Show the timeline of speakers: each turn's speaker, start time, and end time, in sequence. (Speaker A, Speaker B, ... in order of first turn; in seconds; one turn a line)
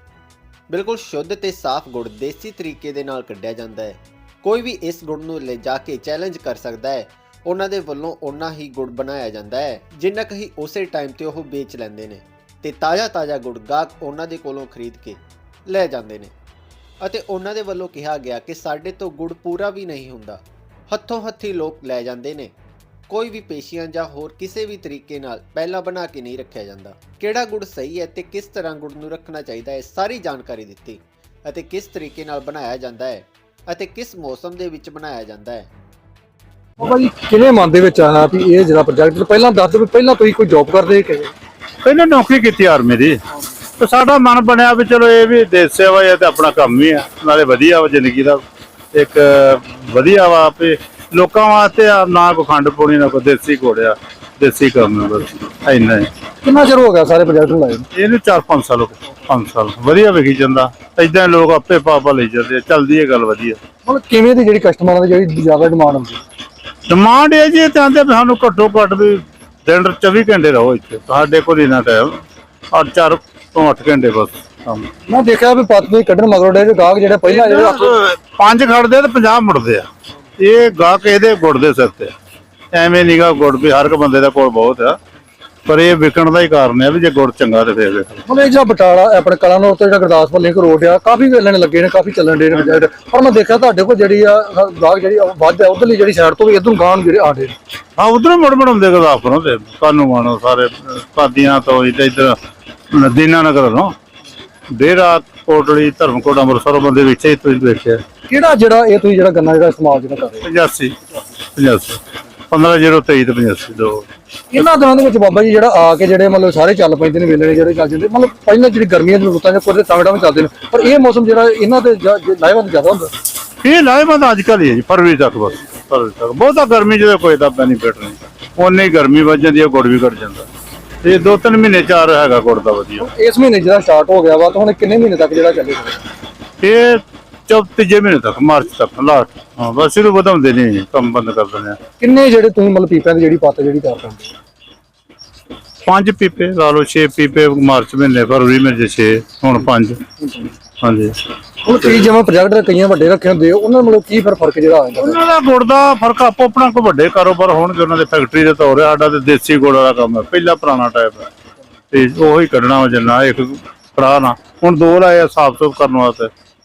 Speaker A: 0.7-16.3
Speaker A: 17.0-22.5
Speaker A: 23.1-35.7
Speaker B: 36.8-41.3
Speaker C: 41.8-43.2
Speaker C: 43.8-48.4
Speaker C: 48.9-56.1
Speaker B: 56.4-57.9
Speaker C: 57.9-63.6
Speaker B: 63.9-66.2
Speaker C: 66.9-74.9
Speaker B: 75.1-77.9
Speaker C: 77.2-79.9
Speaker C: 80.4-82.1
Speaker C: 82.7-85.0
Speaker C: 85.6-88.2
Speaker B: 88.3-97.5
Speaker C: 92.5-92.8
Speaker C: 98.0-102.4
Speaker C: 102.9-103.9
Speaker C: 104.7-108.0
Speaker B: 108.3-110.5
Speaker C: 110.4-110.9
Speaker C: 111.5-114.0
Speaker B: 114.5-123.1
Speaker C: 123.6-130.5
Speaker C: 131.0-133.1
Speaker B: 133.0-136.0
Speaker C: 136.6-141.8
Speaker B: 142.0-144.3
Speaker C: 145.8-150.0
Speaker C: 150.8-151.2
Speaker B: 151.6-155.2
Speaker C: 151.7-152.1
Speaker C: 155.0-161.3
Speaker C: 161.9-166.3